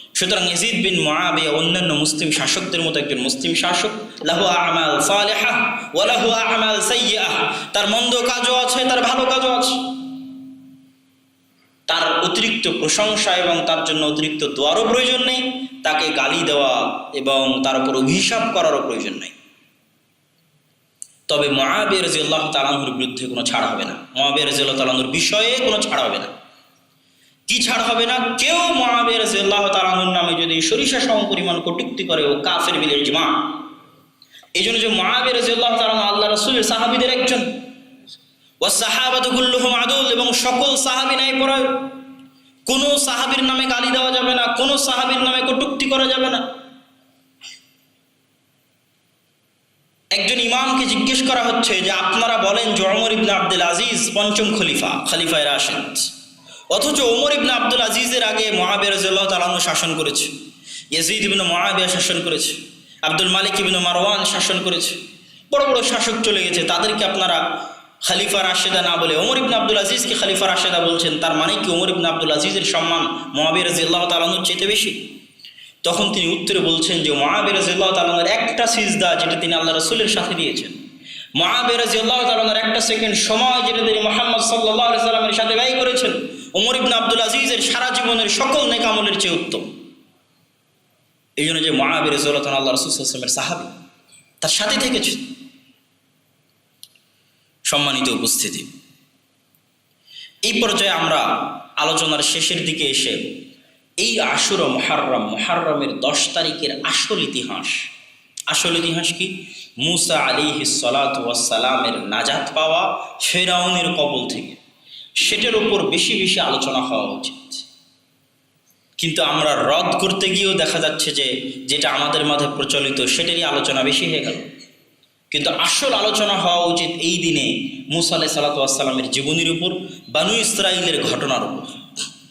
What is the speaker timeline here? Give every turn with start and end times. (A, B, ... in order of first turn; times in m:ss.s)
0:00.2-0:09.8 A
0:11.9-0:19.3 A
0:21.3-0:26.3 A
0:27.5-0:33.4 A
0:34.5-0:37.5 A
0:38.6-0:41.8 A
0:42.6-0:46.4 A
0:50.1-0:56.1 A
0:56.7-1:00.3 A
1:00.9-1:05.0 A
1:05.5-1:07.4 A
1:08.0-1:15.0 A
1:15.8-1:20.8 A
1:21.4-1:29.7 A
1:31.4-1:33.7 A
1:34.4-1:35.2 A
1:37.7-1:38.7 A
1:40.4-1:43.2 A
1:44.0-1:47.9 A
1:48.5-1:54.6 A
1:55.2-1:57.6 A
1:59.0-2:04.4 A
2:05.3-2:11.8 A